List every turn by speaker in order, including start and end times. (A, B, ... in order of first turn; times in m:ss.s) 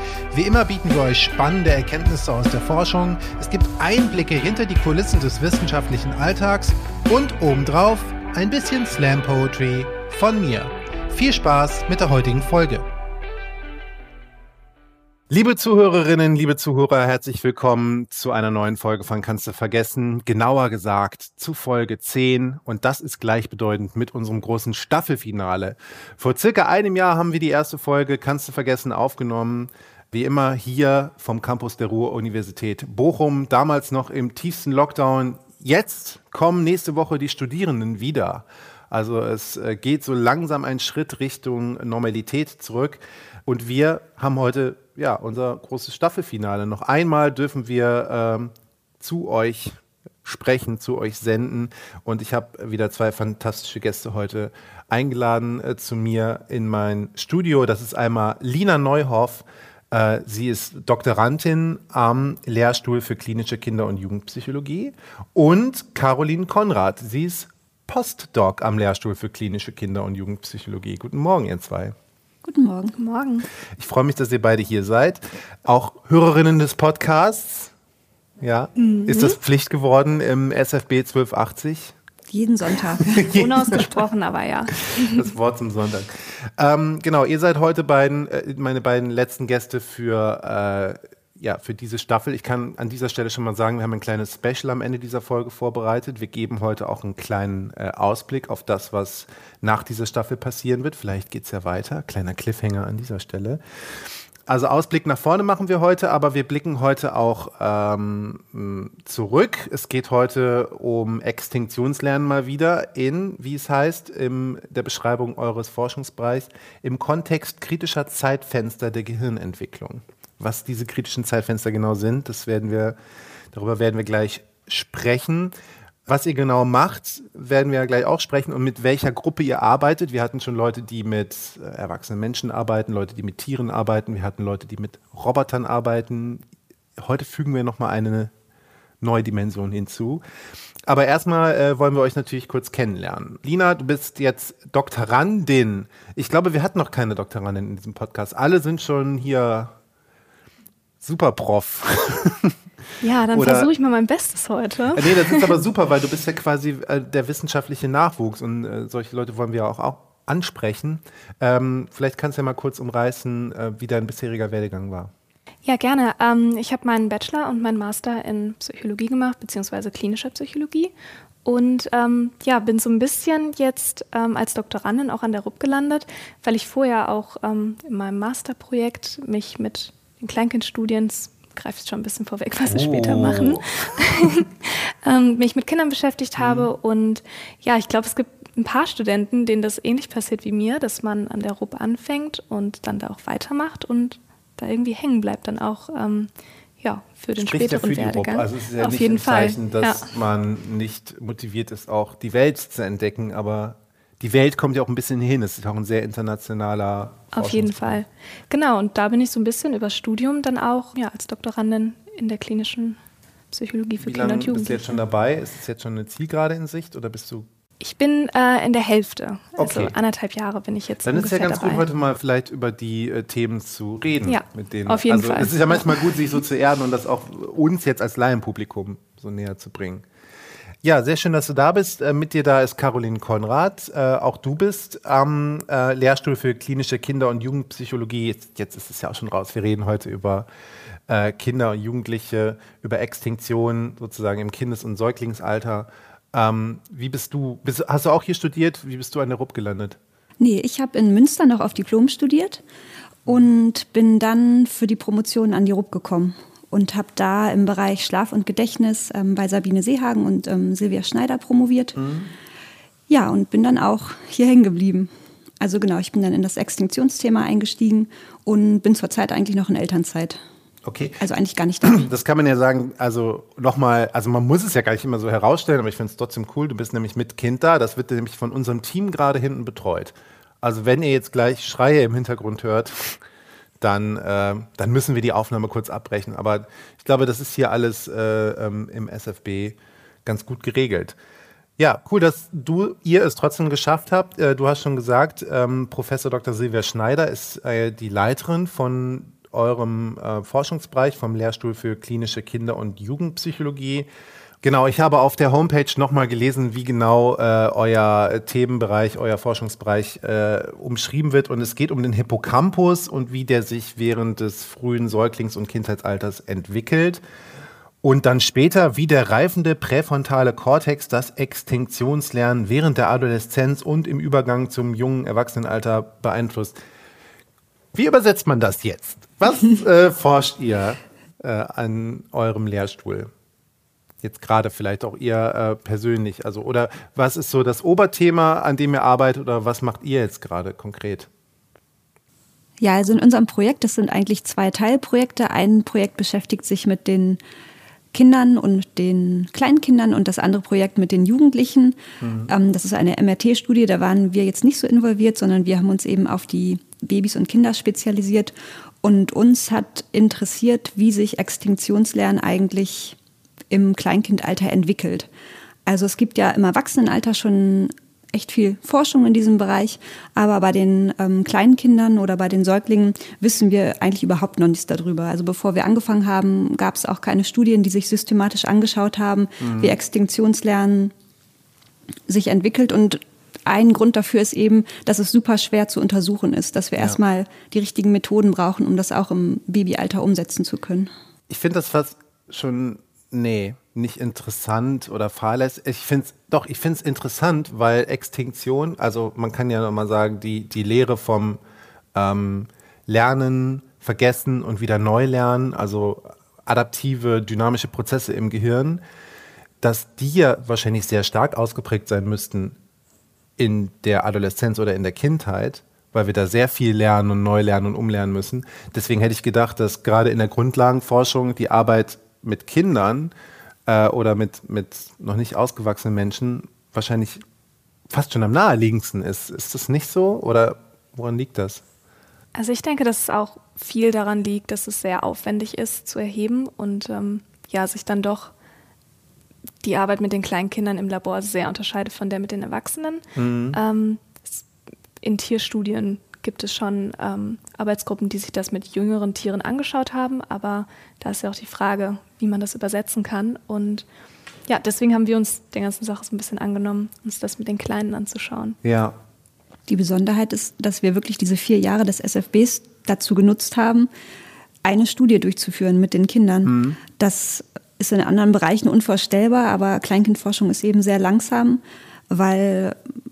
0:00.3-0:12.9 A
0:15.3-1:12.0 A
1:12.4-1:13.0 B
1:13.0-1:13.5 C
1:13.8-1:17.7 A
1:18.4-1:21.9 A
1:18.8-1:19.4 C
1:22.3-1:23.3 B
1:23.0-1:23.9 A
1:23.3-1:25.3 C
1:25.0-1:43.6 A
1:44.5-2:03.0 A
2:03.5-2:05.6 A
2:06.1-2:16.4 A
2:17.0-2:18.3 A
2:19.0-2:20.2 A
2:20.9-2:29.7 A
2:31.0-2:32.6 A
2:33.0-2:35.6 C
2:33.3-2:33.7 A
2:35.0-2:45.1 A
2:45.6-2:50.9 C
2:51.4-3:16.3 C
3:02.7-3:03.8 A
3:06.4-3:06.7 A
3:16.8-3:20.1 C
3:17.4-3:28.0 A
3:27.3-3:33.0 C
3:33.5-3:35.0 C
3:34.0-3:37.5 A
3:37.8-3:41.9 C
3:39.6-3:39.9 A
3:41.0-3:50.0 A
3:44.3-3:46.2 C
3:50.8-4:00.5 A
4:01.1-4:10.0 A
4:10.4-4:12.6 B
4:13.3-4:22.0 B
4:22.0-4:22.3 A
4:23.1-4:30.4 B
4:30.8-4:31.2 A
4:31.2-4:32.1 B
4:31.8-4:43.2 A
4:43.8-4:51.2 A
4:51.8-5:04.1 A
5:04.6-5:17.2 A
5:18.0-5:26.8 A
5:27.9-5:33.3 A
5:34.2-5:41.3 A
5:42.8-5:47.4 B
5:48.1-6:03.2 B
5:52.2-5:52.5 A
6:03.7-6:05.3 B
6:05.9-6:21.1 B
6:19.6-6:20.0 A
6:22.3-6:31.1 B
6:31.5-6:41.6 A
6:42.2-6:49.0 A
6:49.8-6:52.8 A
6:53.6-7:03.3 A
7:03.9-7:07.4 A
7:08.1-7:11.8 A
7:12.6-7:18.5 C
7:19.8-7:24.6 C
7:23.4-7:23.8 A
7:25.2-7:34.1 C
7:34.7-7:38.8 C
7:38.8-7:39.2 A
7:39.9-7:44.1 B
7:44.8-7:53.0 B
7:46.6-7:47.0 A